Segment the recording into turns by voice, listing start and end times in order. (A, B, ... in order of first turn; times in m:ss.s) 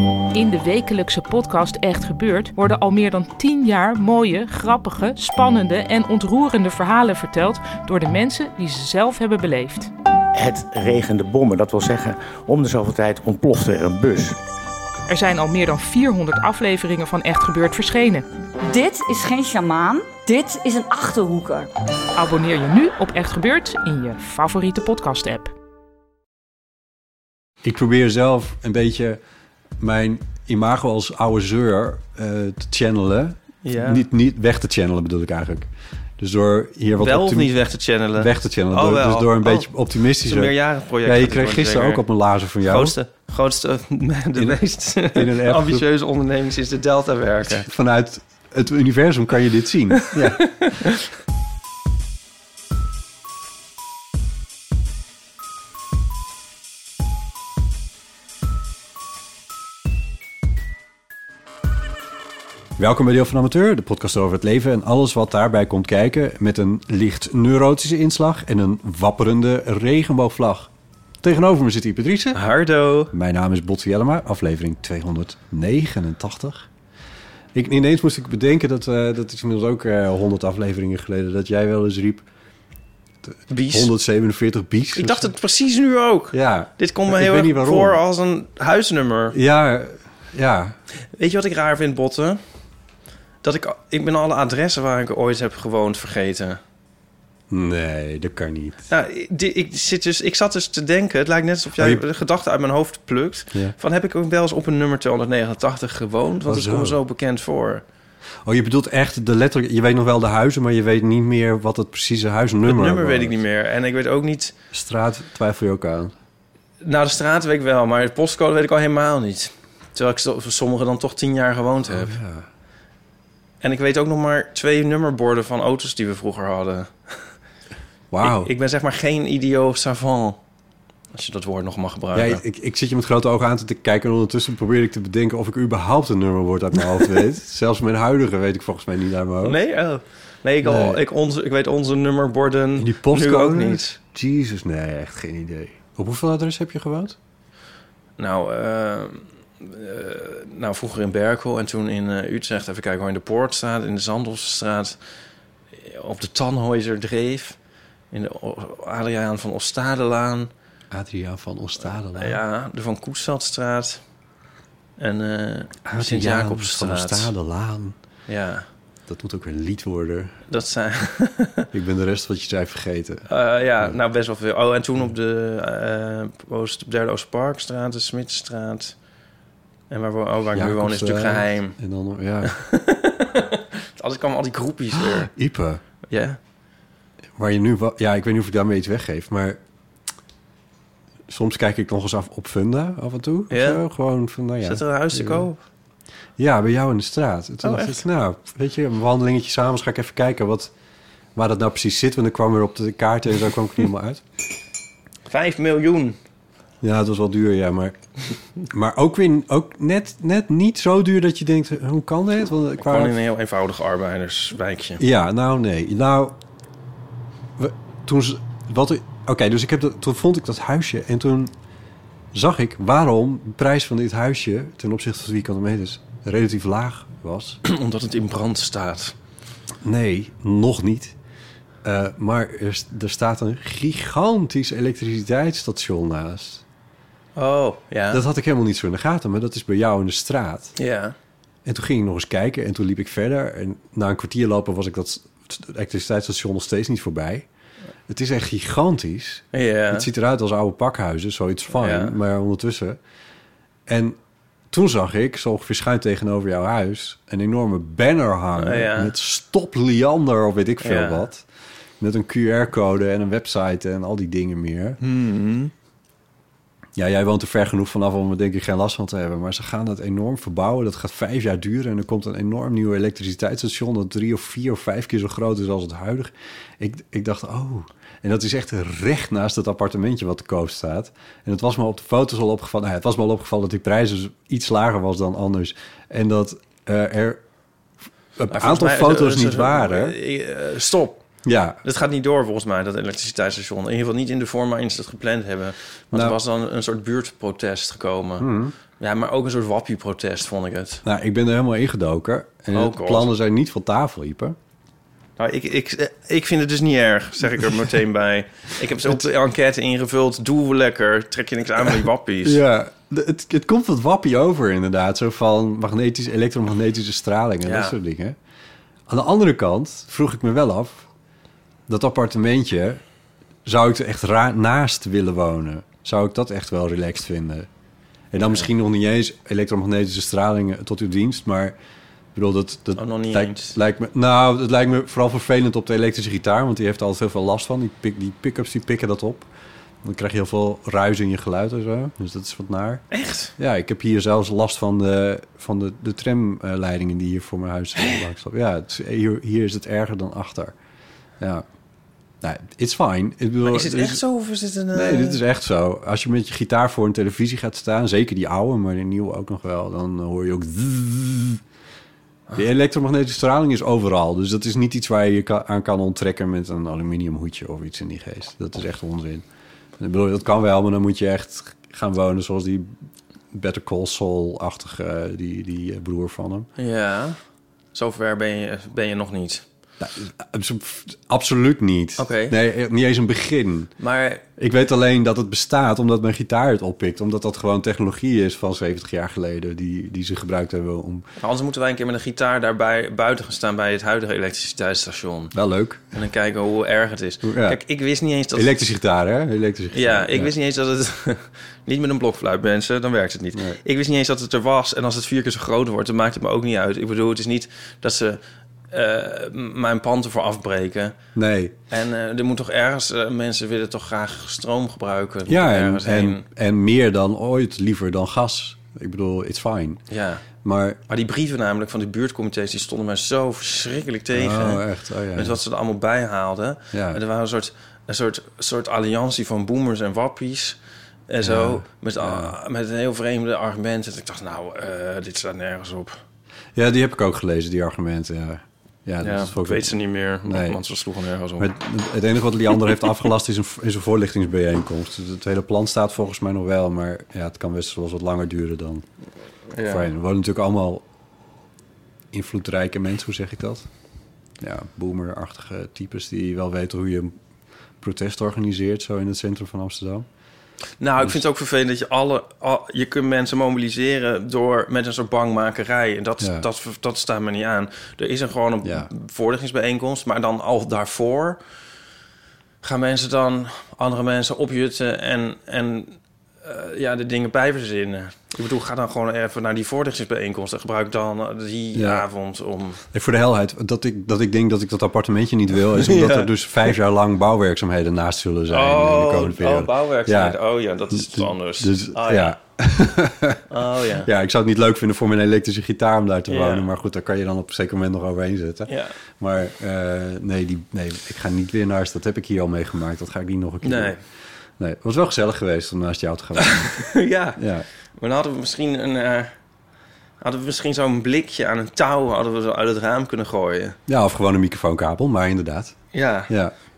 0:00.3-0:09.9 A
0:10.4-0:14.4 B
0:15.1-0:18.2 A
0:18.7-0:21.7 C
0:22.2-0:25.5 A
0:27.6-0:29.2 D
0:29.8-0:37.5 D
0:33.6-0:34.1 E
0:37.0-0:42.1 E
0:38.2-0:43.0 D
0:42.6-0:47.7 E
0:44.4-0:45.9 D
0:47.5-0:50.7 D
0:50.4-0:51.0 E
1:02.8-1:10.7 D
1:11.2-1:12.4 D
1:12.3-1:13.1 E
1:13.1-1:16.7 D
1:17.6-1:22.3 D
1:23.3-1:25.3 D
1:23.5-1:23.9 E
1:24.9-1:29.4 E
1:26.3-1:28.0 D
1:29.3-1:30.8 D
1:31.2-1:32.4 E
1:33.4-1:36.6 E
1:37.5-1:38.8 D
1:38.9-1:47.8 E
1:41.8-1:42.0 D
1:46.5-1:47.0 D
1:48.4-1:53.4 D
1:52.6-1:54.5 E
1:54.7-1:56.2 D
1:56.8-2:02.2 E
2:01.9-2:02.5 D
2:03.6-2:07.3 E
2:08.1-2:08.5 D
2:08.2-2:10.4 E
2:11.1-2:12.4 E
2:12.1-2:19.6 D
2:19.4-2:24.0 E
2:20.6-2:21.0 D
2:22.8-2:27.2 D
2:28.2-2:35.0 E
2:35.7-2:37.6 E
2:38.1-2:40.5 E
2:40.9-2:42.4 D
2:42.1-2:44.0 E
2:45.0-2:47.3 E
2:45.8-2:48.0 D
2:48.3-2:48.7 E
2:49.1-2:50.4 D
2:50.5-2:51.7 E
2:51.7-2:53.3 D
2:53.3-2:59.0 E
2:59.9-3:01.8 E
3:00.5-3:02.6 D
3:02.4-3:05.3 E
3:04.9-3:05.8 D
3:06.1-3:06.4 E
3:07.4-3:09.6 D
3:11.3-3:15.5 D
3:13.5-3:13.8 E
3:14.6-3:15.6 E
3:16.4-3:20.7 D
3:17.6-3:18.0 E
3:21.4-3:24.2 D
3:25.3-3:26.2 E
3:26.8-3:28.0 D
3:28.7-3:33.2 D
3:32.8-3:35.0 E
3:35.0-3:36.4 D
3:37.6-3:41.5 D
3:42.3-3:47.6 D
3:47.6-3:49.2 E
3:49.8-3:51.2 D
3:51.8-3:56.6 D
3:57.4-3:58.2 E
3:58.1-4:00.8 D
4:00.8-4:01.2 E
4:01.6-4:07.5 D
4:08.1-4:13.0 D
4:09.5-4:10.1 E
4:11.7-4:12.2 E
4:13.9-4:14.2 D
4:14.7-4:21.5 D
4:18.6-4:19.1 E
4:20.8-4:21.3 E
4:22.0-4:25.0 D
4:25.0-4:25.7 E
4:27.0-4:47.4 D
4:48.4-4:50.2 D
4:48.5-4:51.2 E
4:51.4-4:51.8 D
4:51.8-4:58.5 E
4:56.1-4:56.4 D
4:58.4-4:58.8 D
4:59.0-5:01.0 E
5:01.0-5:04.6 D
5:02.7-5:03.3 E
5:05.4-5:12.6 E
5:07.6-5:07.8 D
5:12.4-5:18.4 D
5:17.6-5:18.0 E
5:19.1-5:21.1 D
5:21.9-5:23.0 D
5:23.7-5:27.7 D
5:28.3-5:31.8 D
5:28.4-5:28.7 E
5:32.4-5:39.5 D
5:33.0-5:33.8 E
5:40.0-5:43.0 D
5:43.1-5:43.5 E
5:43.6-5:50.8 D
5:51.4-5:51.6 D
5:52.4-5:54.2 D
5:53.6-5:55.4 E
5:54.9-6:01.6 D
6:02.5-6:09.4 D
6:10.0-6:12.9 D
6:13.5-6:16.7 D
6:16.8-6:17.4 E
6:17.9-6:19.6 E
6:20.0-6:23.9 D
6:22.2-6:22.6 E
6:24.0-6:24.4 E
6:24.6-6:31.3 D
6:31.4-6:35.5 E
6:35.5-6:36.1 D
6:36.1-6:38.7 E
6:37.4-6:37.8 D
6:38.5-6:40.5 D
6:39.9-6:51.2 E
6:43.5-6:43.8 D
6:51.4-6:51.8 D
6:51.9-6:56.4 E
6:55.5-7:00.0 D
7:00.1-7:00.4 E
7:00.6-7:01.0 D
7:01.1-7:16.2 E
7:04.3-7:05.6 D
7:06.9-7:07.2 D
7:11.4-7:12.6 D
7:16.8-7:20.8 D
7:19.2-7:21.7 E
7:21.6-7:29.0 D
7:29.7-7:30.1 E
7:29.8-7:31.0 D
7:32.3-7:33.9 D
7:34.6-7:37.3 D
7:38.0-7:40.3 D
7:41.0-7:51.6 E
7:46.4-7:46.7 D
7:48.8-7:49.1 D
7:52.8-8:03.0 E
8:01.9-8:02.3 D
8:03.1-8:13.6 D
8:05.9-8:06.9 E
8:08.7-8:12.6 E
8:13.7-8:14.3 E
8:14.2-8:24.2 D
8:16.5-8:16.9 E
8:18.9-8:19.2 E
8:23.8-8:24.2 E
8:24.8-8:27.9 D
8:26.6-8:27.6 E
8:28.2-8:29.5 E
8:30.4-8:34.0 E
8:34.1-8:36.0 D
8:36.1-8:36.5 E
8:36.5-8:36.7 D